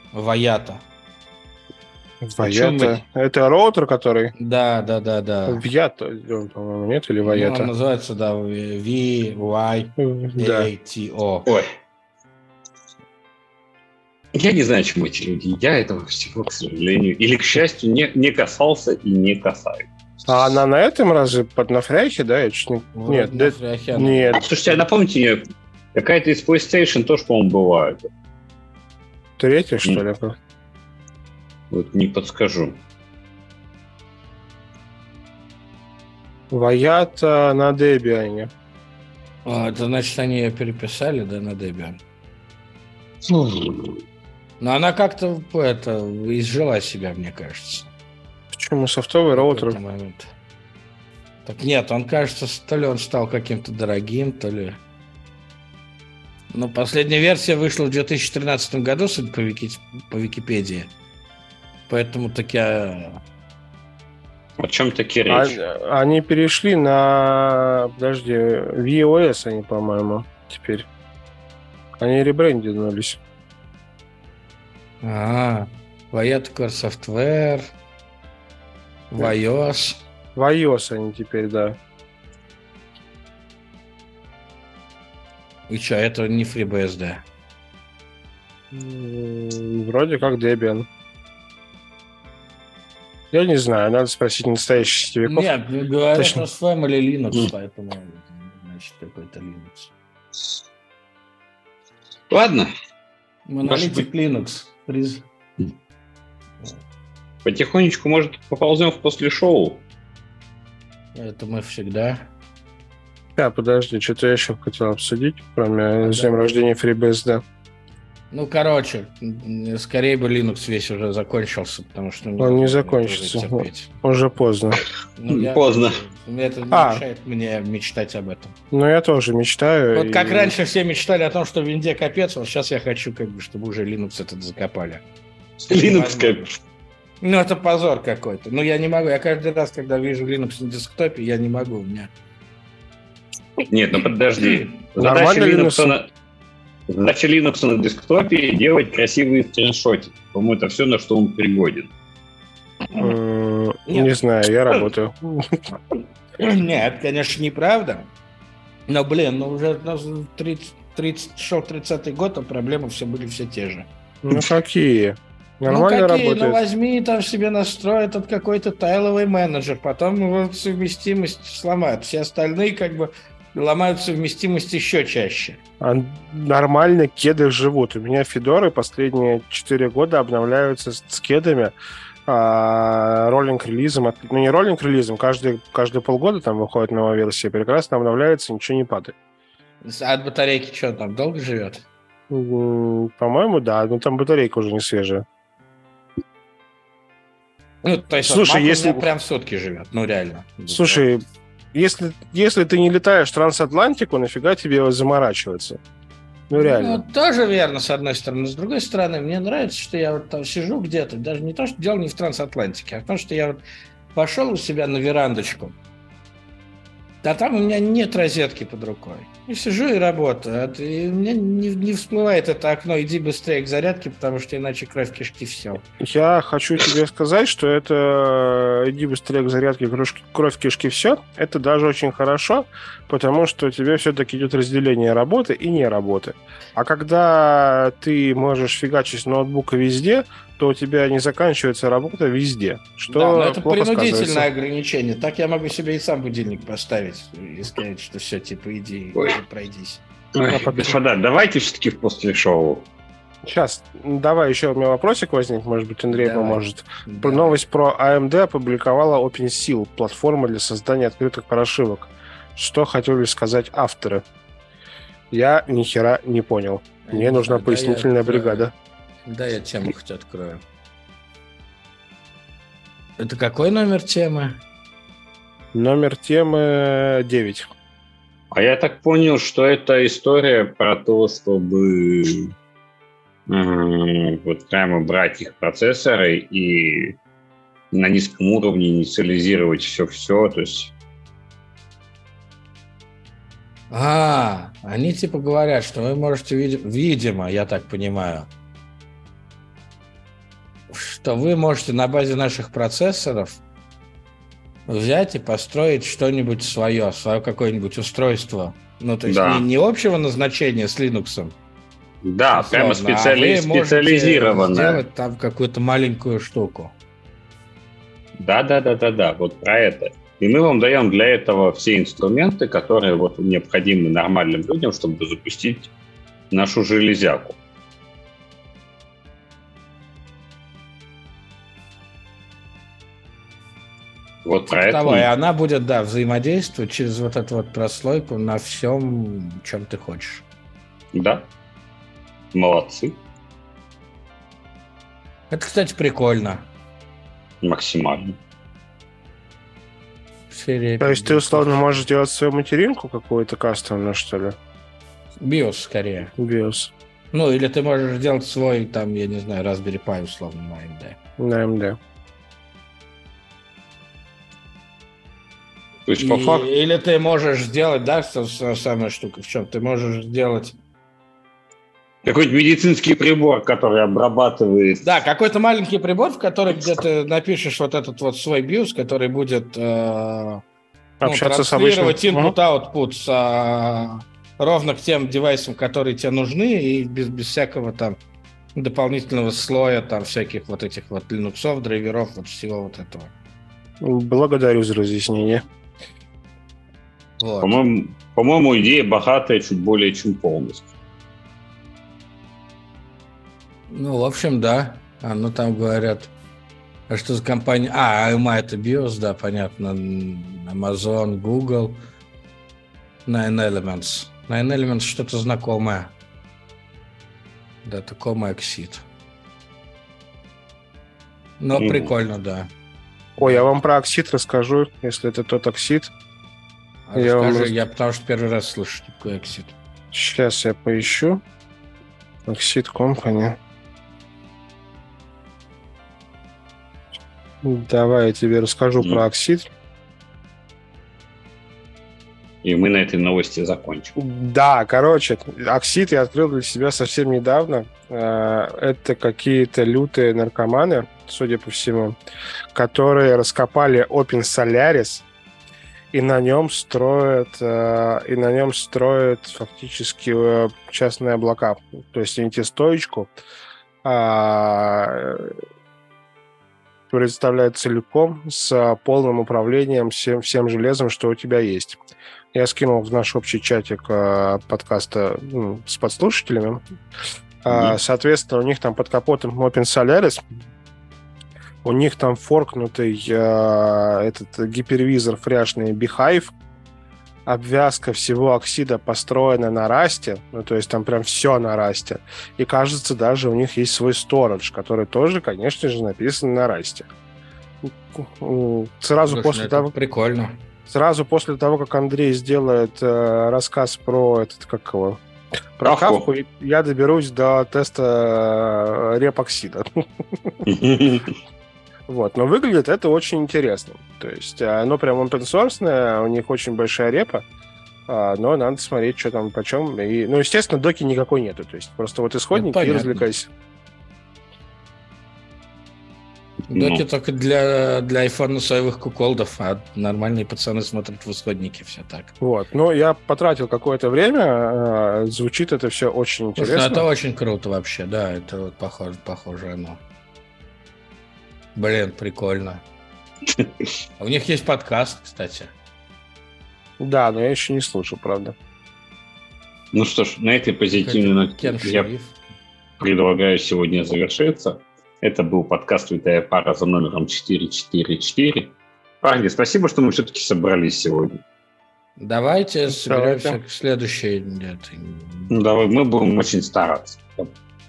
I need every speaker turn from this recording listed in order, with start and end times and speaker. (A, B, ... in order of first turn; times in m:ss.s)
0:00.1-0:00.8 A
0:02.2-0:04.3 B
0:02.4-0:03.0 A
0:04.4-0:05.6 A
0:05.5-0:07.7 B
0:07.2-0:11.5 A
0:10.0-0:10.7 B
0:14.3-0:19.9 C
0:20.3-0:24.5 B
0:22.9-0:24.4 A
0:24.3-0:25.4 C
0:25.9-0:28.1 C
0:29.4-0:30.4 B
0:31.7-0:32.8 C
0:36.5-0:38.5 B
0:39.4-0:42.0 A
0:43.3-0:44.0 C
0:44.6-0:47.9 A
0:48.5-0:49.8 B
0:49.3-0:50.3 A
0:51.4-0:54.8 A
0:56.5-1:00.9 A
1:01.9-1:03.2 A
1:04.6-1:05.6 C
1:05.3-1:10.9 B
1:12.0-1:13.2 B
1:15.0-1:17.7 A
1:19.1-1:20.0 A
1:20.4-1:21.8 B
1:25.7-1:27.2 A
1:28.7-1:30.9 B
1:33.3-1:35.5 B
1:35.2-1:39.9 A
1:36.2-1:36.4 B
1:42.3-1:42.7 C
1:43.5-1:45.2 A
1:43.6-1:44.0 C
1:47.4-1:49.8 C
1:51.1-1:52.3 A
1:53.4-1:57.4 B
1:56.0-1:56.4 A
1:58.3-2:03.9 A
2:02.4-2:04.8 B
2:05.2-2:08.5 A
2:05.3-2:06.0 C
2:06.7-2:07.0 B
2:08.7-2:10.5 B
2:09.9-2:15.0 A
2:15.7-2:16.5 C
2:15.7-2:16.5 A
2:17.2-2:22.1 A
2:23.7-2:26.1 C
2:24.4-2:24.7 A
2:25.0-2:25.9 B
2:26.9-2:31.9 C
2:33.0-2:35.6 B
2:33.9-2:34.1 A
2:36.4-2:38.1 A
2:38.9-2:44.4 A
2:44.2-2:46.6 B
2:45.7-2:55.6 A
2:55.8-3:01.7 B
3:02.2-3:09.1 B
3:09.8-3:11.8 A
3:12.3-3:15.2 B
3:17.8-3:21.0 A
3:18.2-3:19.1 B
3:20.7-3:21.2 B
3:21.7-3:25.8 B
3:26.5-3:27.0 B
3:26.5-3:33.6 A
3:34.1-3:35.7 A
3:37.2-3:45.8 A
3:46.0-4:04.5 B
4:03.1-4:10.0 A
4:10.4-4:12.8 C
4:10.5-4:11.0 B
4:13.4-4:24.2 B
4:16.1-4:17.6 A
4:25.3-4:28.7 B
4:27.0-4:28.7 A
4:29.2-4:30.6 A
4:33.2-4:34.6 A
4:35.7-4:37.7 B
4:38.5-4:42.5 C
4:43.5-4:47.2 C
4:47.9-4:50.9 C
4:53.9-4:58.5 A
5:00.9-5:03.6 A
5:04.9-5:11.5 A
5:09.3-5:09.6 C
5:12.2-5:15.0 C
5:12.5-5:16.9 A
5:18.4-5:25.9 C
5:26.5-5:27.6 C
5:34.4-5:35.3 C
5:34.7-5:40.4 A
5:41.1-5:41.5 C
5:42.5-5:43.2 C
5:45.5-5:46.7 A
5:47.6-5:48.4 C
5:50.5-5:51.8 A
5:51.0-5:54.6 B
5:55.4-5:56.3 A
5:56.4-5:56.9 B
5:57.3-6:01.2 A
6:01.4-6:02.0 B
6:06.1-6:06.7 C
6:06.2-6:10.8 A
6:12.2-6:15.0 C
6:15.0-6:20.6 A
6:21.2-6:22.6 B
6:21.2-6:28.2 A
6:28.7-6:33.3 A
6:34.0-6:35.6 B
6:37.4-6:37.8 A
6:37.6-6:40.9 C
6:43.9-6:46.3 A
6:47.1-6:52.0 A
6:53.2-6:56.1 A
6:57.8-6:59.0 A
7:01.6-7:02.7 A
7:01.8-7:02.1 C
7:03.4-7:06.1 B
7:07.1-7:09.7 A
7:07.1-7:07.7 B
7:10.1-7:11.4 B
7:12.4-7:13.6 B
7:17.6-7:19.6 B
7:22.6-7:24.1 C
7:24.1-7:32.2 B
7:32.7-7:35.2 B
7:36.1-7:43.3 B
7:44.0-7:45.5 B
7:47.1-7:52.0 B
7:52.5-7:56.8 B
7:57.6-8:00.4 B
7:57.7-7:58.0 C
8:01.8-8:06.5 B
8:07.4-8:17.1 B
8:18.1-8:19.9 B
8:19.3-8:20.6 A
8:20.9-8:25.2 B
8:25.8-8:29.9 B
8:25.8-8:26.2 C
8:30.6-8:31.3 C
8:32.1-8:37.4 B
8:38.1-8:43.5 B
8:42.5-8:43.2 A
8:46.7-8:47.0 C
8:46.7-8:52.3 A
8:52.4-8:57.0 B
8:56.6-9:00.0 A
9:01.7-9:02.8 A
9:04.2-9:05.7 A
9:07.0-9:08.6 B
9:09.9-9:12.1 C
9:11.0-9:12.4 A
9:13.0-9:21.4 C
9:22.2-9:25.5 A
9:22.9-9:23.6 B
9:25.5-9:27.5 C